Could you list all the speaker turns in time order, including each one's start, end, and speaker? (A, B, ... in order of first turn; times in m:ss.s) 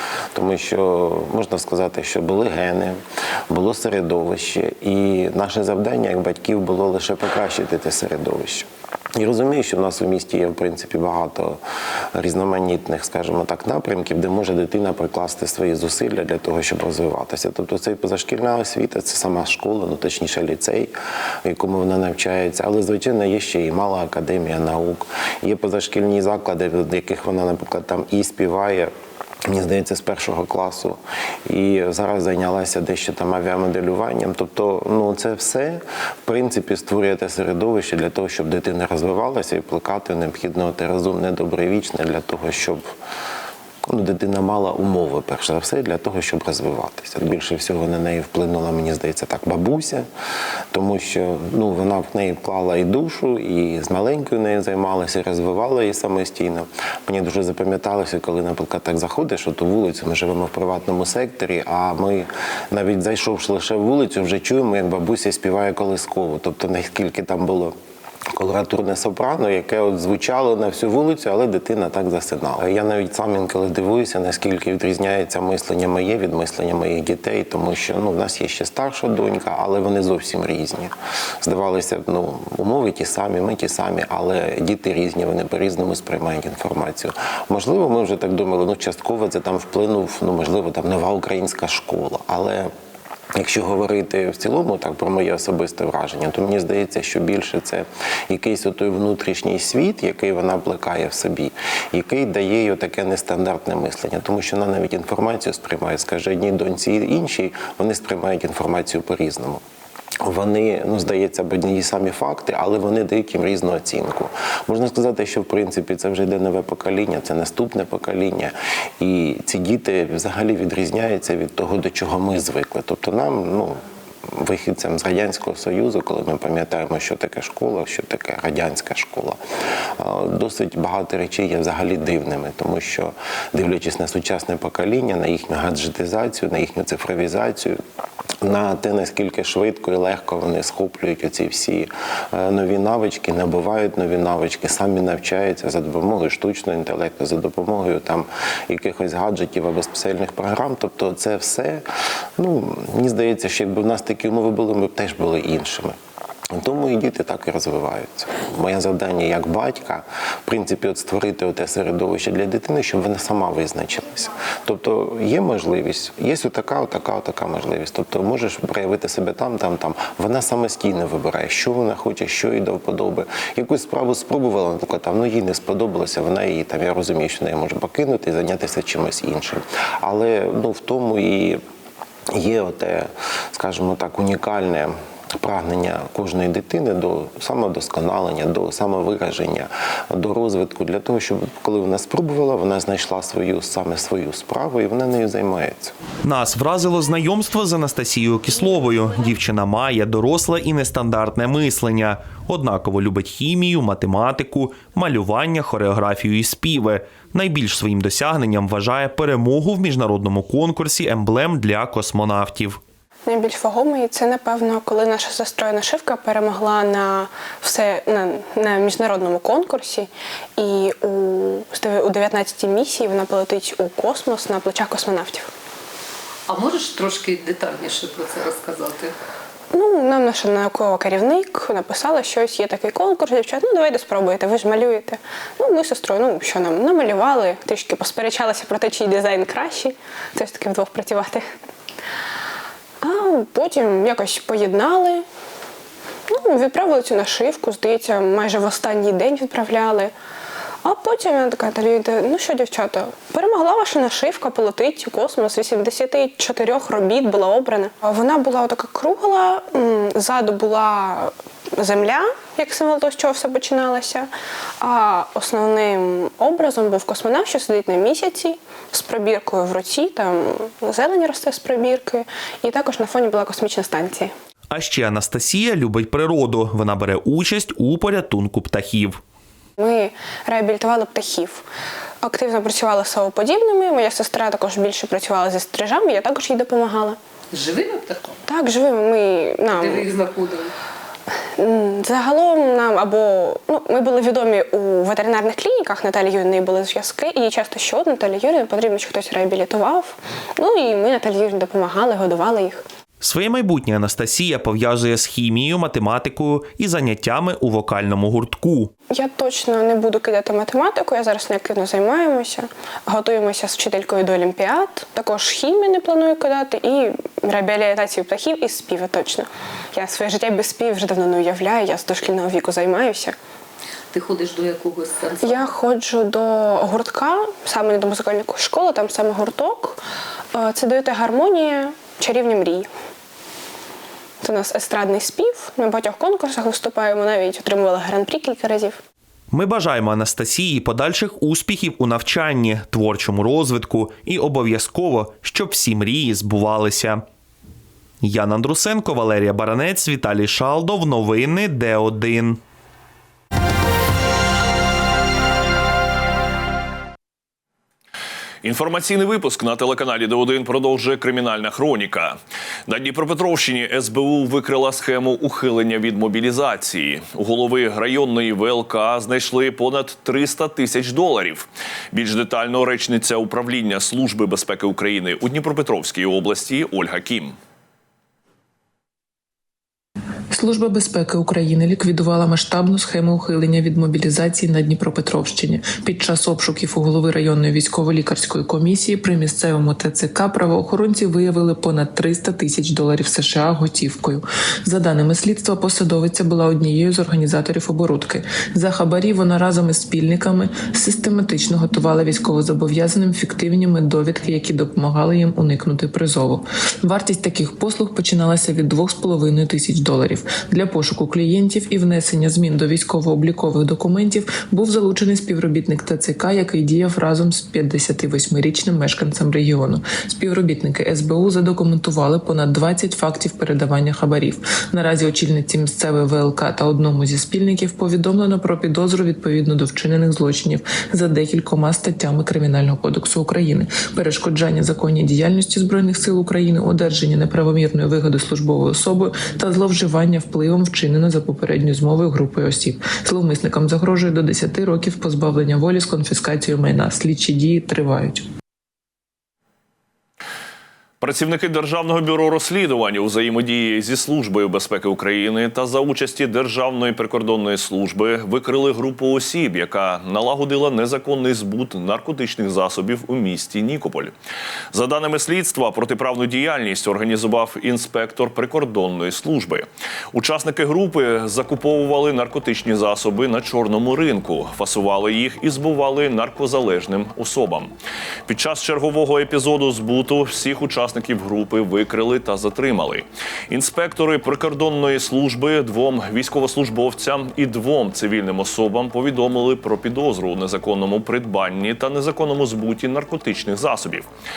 0:00.3-0:03.0 A
0:03.5-0:11.6 A
0:12.1-0:20.9 A
0:21.4-0:28.9 A
0:29.5-0:42.8 A
0:43.9-0:50.1 A
0:50.7-1:07.8 A
1:08.3-1:32.7 A
1:33.4-1:49.6 A
1:50.2-2:09.4 A
2:10.0-2:17.8 A
2:18.4-2:31.8 A
2:32.4-2:36.0 A
2:36.5-3:01.6 A
3:02.3-3:15.9 A
3:16.2-3:32.8 B
3:33.3-3:45.5 C
3:46.5-3:49.1 D
3:49.7-4:01.4 C
4:03.0-4:05.2 C
4:06.3-4:10.1 C
4:10.8-4:34.3 C
4:34.7-4:39.2 B
4:39.8-4:41.6 C
4:42.2-4:47.2 C
4:47.5-4:48.4 D
4:48.5-4:50.1 C
4:49.7-4:50.7 D
4:51.6-5:02.8 C
5:03.2-5:08.9 B
5:09.1-5:23.4 C
5:24.1-5:25.7 D
5:25.4-5:30.0 C
5:30.5-5:32.9 C
5:34.4-5:39.0 C
5:39.5-5:47.2 B
5:48.2-5:52.6 B
5:58.6-6:17.6 E
6:20.5-7:28.5 F
7:31.2-7:44.3 E
7:44.9-7:57.9 E
7:58.5-8:14.3 E